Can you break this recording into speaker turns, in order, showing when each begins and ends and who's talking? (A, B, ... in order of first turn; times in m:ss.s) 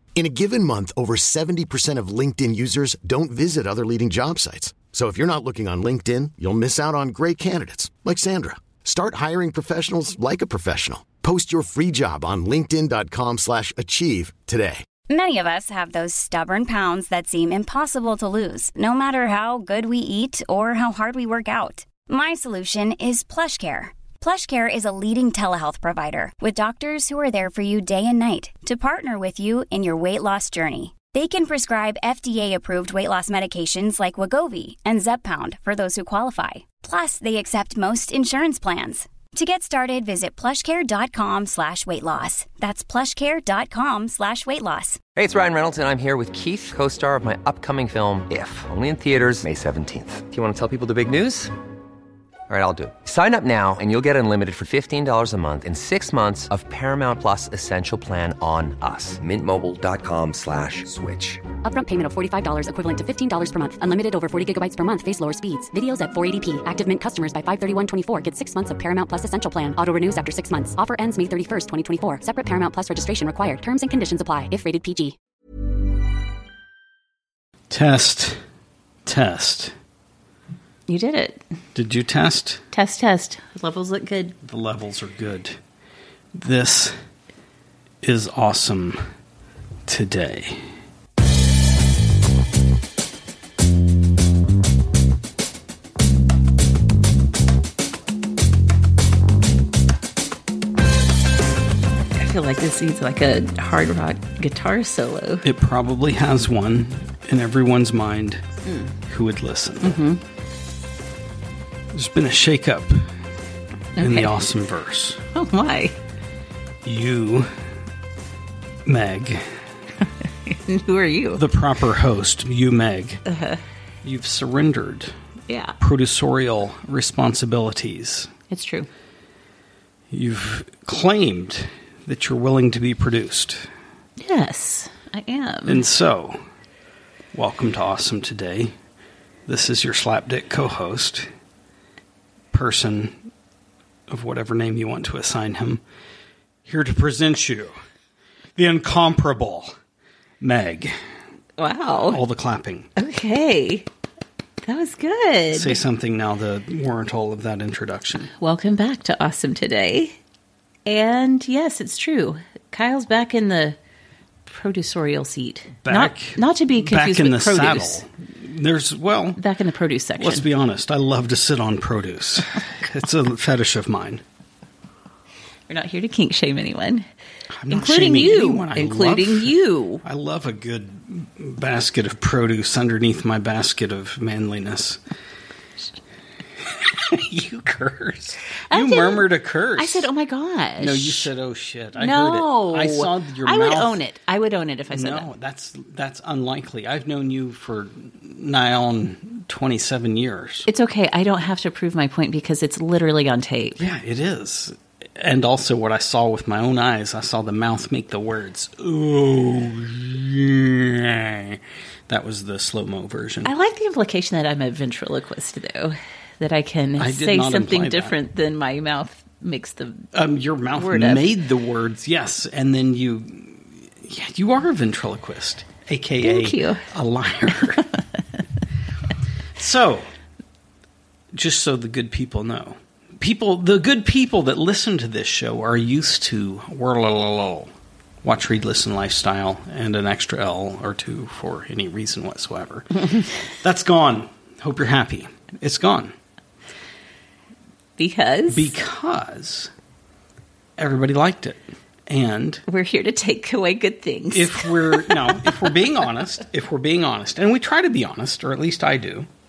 0:00.1-0:14.8 A
0:15.1-0:45.0 B
0:45.2-0:51.5 C
0:52.5-1:01.5 C
1:01.6-1:15.1 D
1:17.7-1:18.4 E
1:19.0-1:19.7 E
1:20.9-1:21.4 F
1:21.7-1:22.6 E
1:22.7-1:24.3 F
1:24.4-1:25.6 E
1:26.3-1:26.9 E
1:28.0-1:29.0 E
1:29.9-1:30.6 E
1:42.1-1:45.4 F
1:45.4-1:48.4 E
1:48.7-1:48.9 F
1:49.1-1:50.0 E
1:49.8-1:50.2 F
1:51.9-1:53.1 E
1:54.0-1:54.3 F
1:54.0-1:55.2 E
1:55.3-1:56.0 F
1:56.8-1:57.5 E
1:58.8-1:59.5 E
2:00.4-2:01.4 F
2:01.3-2:03.2 E
2:03.3-2:03.6 F
2:04.0-2:05.1 E
2:05.5-2:05.8 F
2:05.8-2:08.3 E
2:08.5-2:08.9 F
2:10.1-2:13.7 E
2:14.2-2:15.8 F
2:15.7-2:16.4 E
2:17.3-2:18.7 E
2:19.5-2:21.3 E
2:22.5-2:23.1 E
2:24.1-2:25.8 E
2:26.6-2:27.8 E
2:28.6-2:29.7 E
2:30.4-2:31.0 E
2:31.6-2:32.2 F
2:32.1-2:32.9 E
2:33.0-2:33.9 F
2:34.6-2:35.8 F
2:35.5-2:38.3 E
2:38.4-2:40.1 F
2:40.8-2:43.8 F
2:44.5-2:48.0 F
2:45.8-2:49.4 E
2:49.4-2:50.4 F
2:50.2-2:54.2 E
2:55.7-2:57.1 F
2:57.6-3:05.0 E
2:57.7-3:00.0 F
3:06.7-3:10.1 E
3:08.7-3:11.3 F
3:10.8-3:14.0 E
3:12.0-3:15.3 F
3:14.9-3:20.7 E
3:20.7-3:23.8 F
3:23.8-3:33.5 E
3:33.4-3:40.1 F
3:37.0-3:38.1 E
3:40.1-3:47.9 E
3:40.8-3:41.3 F
3:46.2-3:46.8 F
3:49.6-3:50.1 E
3:51.3-3:57.7 E
3:58.2-4:06.1 E
4:08.0-4:08.7 F
4:08.5-4:09.7 E
4:10.8-4:12.6 E
4:12.7-4:15.4 F
4:14.3-4:19.3 E